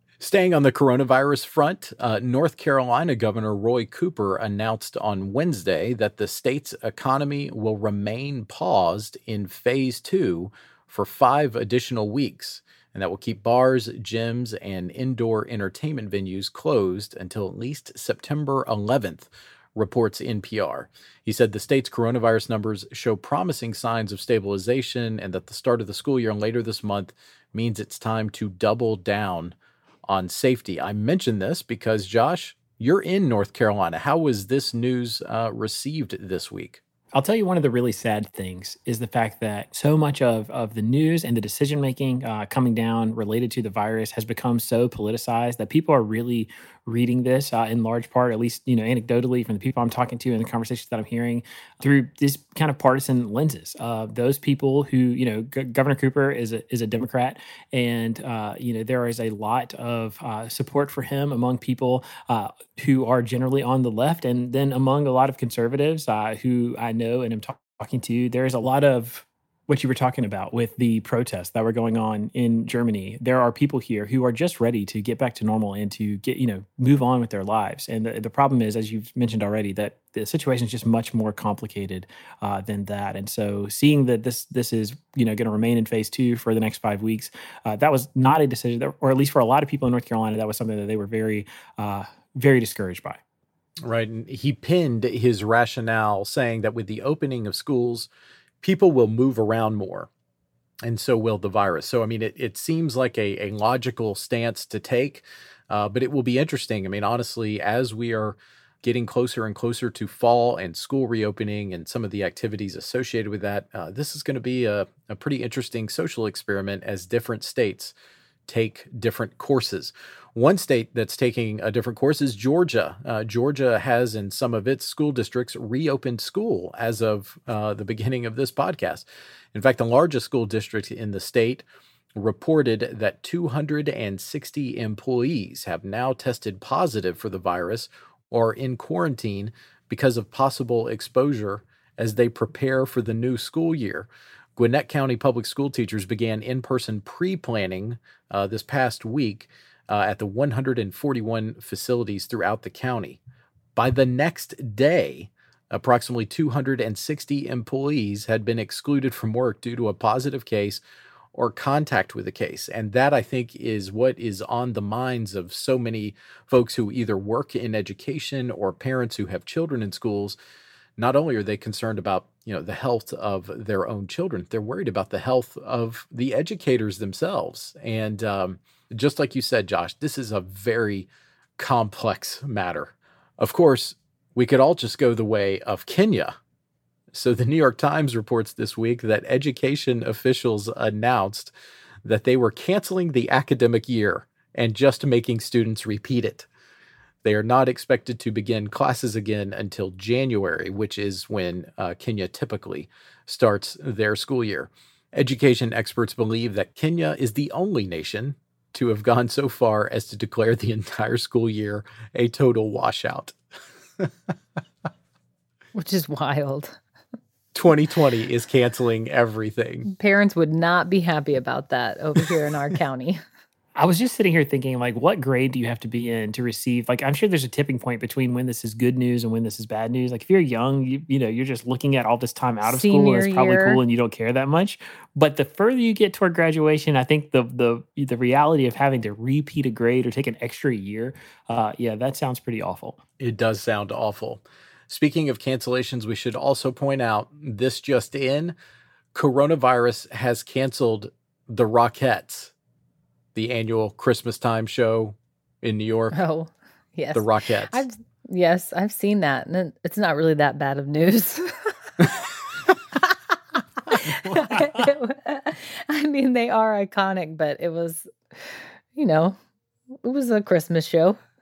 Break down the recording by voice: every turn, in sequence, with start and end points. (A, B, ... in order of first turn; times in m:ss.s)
0:00.2-0:29.5 A
0:30.1-0:36.8 A
0:37.1-1:33.2 B
1:33.8-1:38.1 A
1:38.6-1:40.1 A
1:40.8-1:57.9 A
1:58.5-2:11.6 A
2:12.2-2:33.2 A
2:33.8-2:40.8 A
2:41.3-2:50.4 A
2:51.0-3:06.4 A
3:07.1-3:11.5 A
3:12.0-3:16.5 A
3:17.2-3:33.4 A
3:35.7-3:36.8 C
3:37.5-3:39.9 A
3:39.9-3:43.2 C
3:43.8-4:03.0 B
3:52.6-3:53.8 C
4:03.2-4:08.6 A
4:09.1-4:12.5 A
4:13.3-4:16.2 A
4:16.1-4:21.5 C
4:17.1-4:17.8 A
4:23.9-4:29.4 C
4:30.0-4:31.2 C